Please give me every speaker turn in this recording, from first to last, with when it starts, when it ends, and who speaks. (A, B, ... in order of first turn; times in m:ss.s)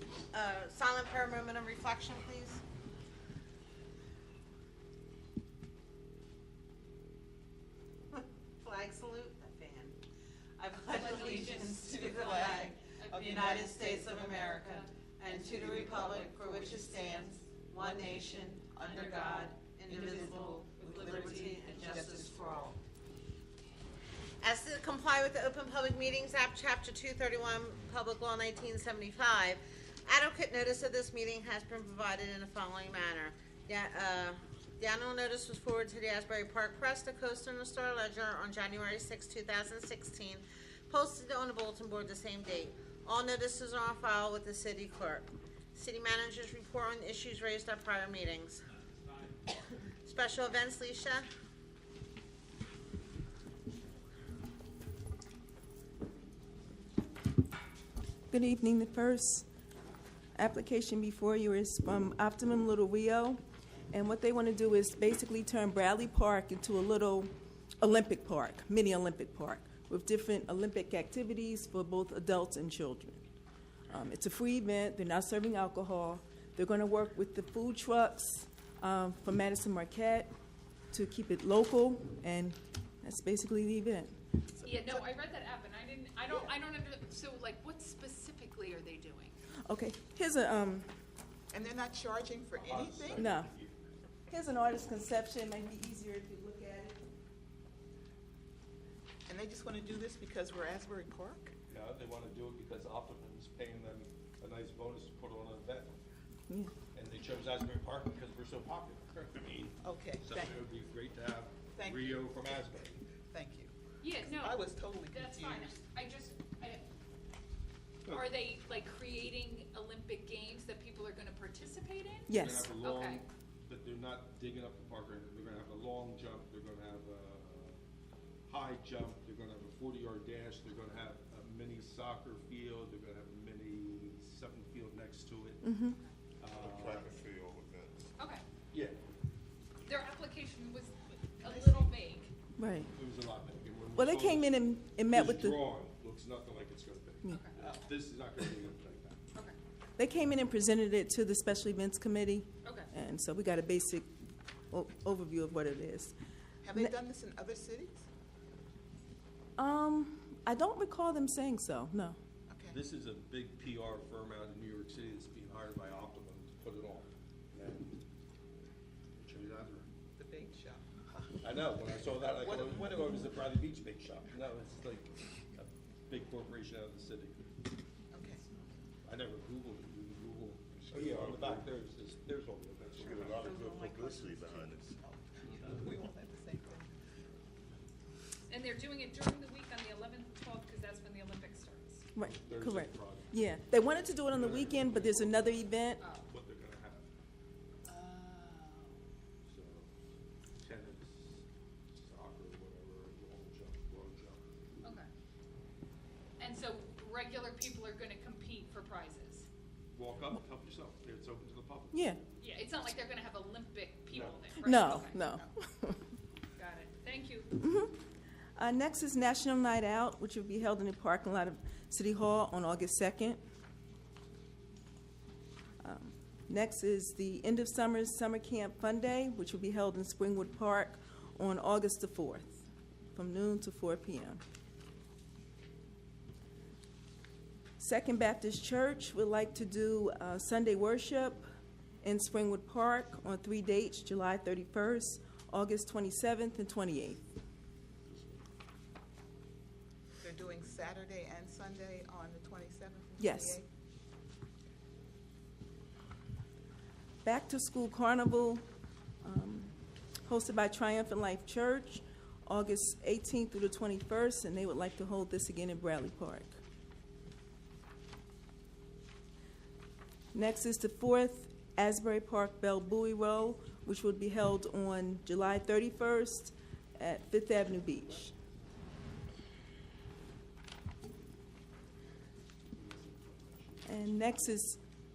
0:00.3-0:02.6 A
0:08.1-0:10.0 A
0:10.6-0:22.7 A
0:10.9-0:14.9 B
0:12.0-0:13.8 C
0:18.8-0:19.4 B
0:20.1-0:20.5 C
0:20.6-0:21.7 B
0:21.0-0:22.8 C
0:24.4-0:48.6 A
0:50.0-0:51.2 A
0:58.3-0:59.4 D
1:00.4-1:03.4 D
1:03.9-1:13.2 D
1:13.9-1:20.3 D
1:20.9-1:24.2 D
1:24.6-1:29.4 B
1:24.6-1:25.0 C
1:29.7-1:30.9 D
1:31.5-1:33.2 C
1:32.5-1:33.8 E
1:33.1-1:33.5 D
1:34.3-1:37.0 D
1:39.3-1:41.5 C
1:41.7-1:46.0 E
1:46.9-1:53.0 E
1:49.8-1:50.5 C
1:51.7-1:52.4 C
1:53.3-1:55.8 C
1:54.0-1:56.8 B
1:58.0-2:03.2 B
2:02.3-2:02.7 D
2:02.3-2:07.8 E
2:08.5-2:15.6 E
2:15.6-2:16.0 D
2:16.4-2:17.2 E
2:16.4-2:18.1 F
2:18.2-2:18.4 B
2:18.7-2:19.0 E
2:19.8-2:22.3 B
2:21.4-2:21.9 C
2:22.6-2:22.9 D
2:22.9-2:29.2 E
2:23.9-2:25.6 D
2:27.3-2:27.6 B
2:27.6-2:27.9 C
2:30.0-2:34.1 D
2:32.6-2:32.9 B
2:34.7-2:36.1 D
2:36.6-2:38.1 C
2:39.6-2:42.2 D
2:42.5-2:42.8 C
2:42.7-2:48.0 E
2:49.2-2:49.9 E
2:50.2-2:50.8 C
2:51.4-2:57.4 E
2:52.4-2:53.1 C
2:58.1-2:58.4 C
2:59.0-3:04.1 E
3:00.7-3:01.7 F
3:02.9-3:05.0 F
3:03.4-3:07.0 C
3:08.5-3:12.0 B
3:12.1-3:16.0 D
3:12.2-3:13.4 E
3:14.1-3:17.1 E
3:16.0-3:16.3 B
3:17.8-3:19.0 B
3:19.5-3:19.9 E
3:20.6-3:24.4 E
3:26.4-3:29.5 B
3:29.9-3:32.0 E
3:31.9-3:32.2 D
3:32.4-3:35.2 B
3:34.1-3:34.5 E
3:34.6-3:36.0 D
3:36.6-3:37.5 B
3:37.6-3:38.0 D
3:38.6-3:43.4 D
3:45.8-3:54.4 D
3:57.8-4:01.4 D
4:02.0-4:07.2 D
4:08.1-4:08.4 F
4:10.2-4:13.6 C
4:13.2-4:13.6 D
4:17.2-4:18.6 D
4:19.2-4:19.7 D
4:20.2-4:26.6 D
4:30.3-4:38.3 D
4:42.7-4:43.8 E
4:43.8-4:44.8 D